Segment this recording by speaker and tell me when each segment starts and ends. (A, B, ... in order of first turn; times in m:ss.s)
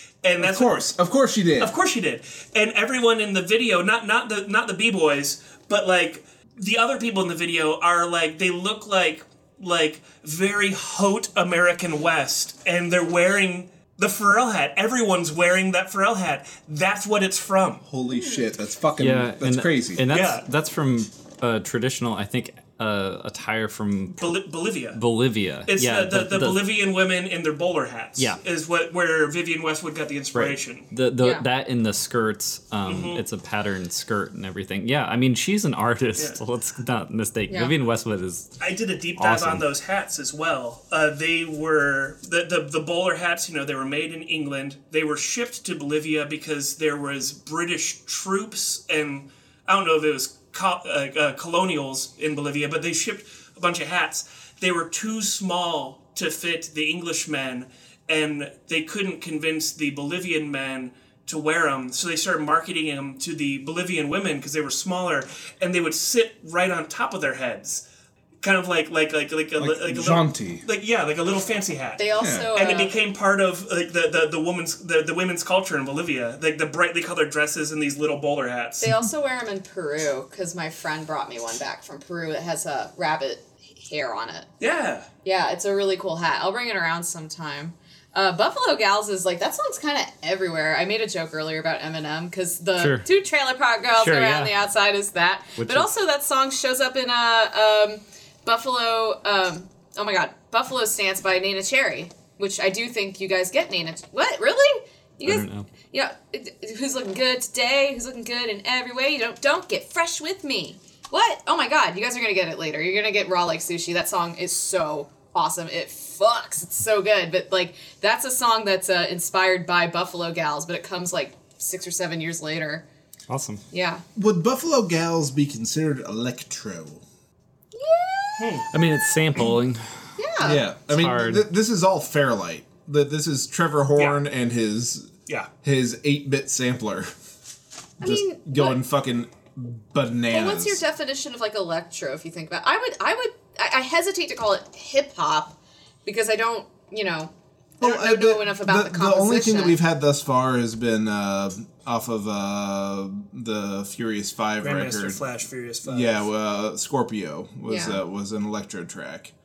0:00.2-0:00.8 A
0:00.4-0:01.7 B
0:01.6-0:17.8 A
0:17.9-0:20.0 B
0:18.1-0:18.5 C
0:19.0-0:24.3 D
0:20.1-0:20.4 A
0:24.2-0:25.0 A
0:24.9-0:26.6 D
0:25.7-0:30.9 A
0:30.3-0:38.6 D
0:31.2-0:31.4 C
0:32.8-0:33.2 A
0:38.6-1:07.8 A
0:39.2-0:39.6 D
1:08.4-1:18.9 A
1:09.6-1:10.6 B
1:12.0-1:12.9 C
1:12.2-1:12.5 B
1:18.8-1:24.5 C
1:24.6-1:25.1 A
1:25.2-2:02.8 C
1:32.8-1:33.0 D
1:34.0-1:34.5 D
1:35.6-1:35.9 D
1:45.2-1:45.7 D
2:03.3-2:03.6 D
2:03.7-2:04.0 C
2:04.2-2:07.0 B
2:07.7-2:08.7 C
2:08.4-2:08.7 A
2:08.7-2:10.1 D
2:10.2-2:10.6 C
2:10.4-2:17.1 B
2:10.8-2:11.4 D
2:18.0-2:18.8 C
2:18.0-2:20.8 B
2:20.3-2:29.8 C
2:27.8-2:35.2 B
2:34.6-2:36.3 A
2:35.8-2:39.3 B
2:37.7-2:38.0 C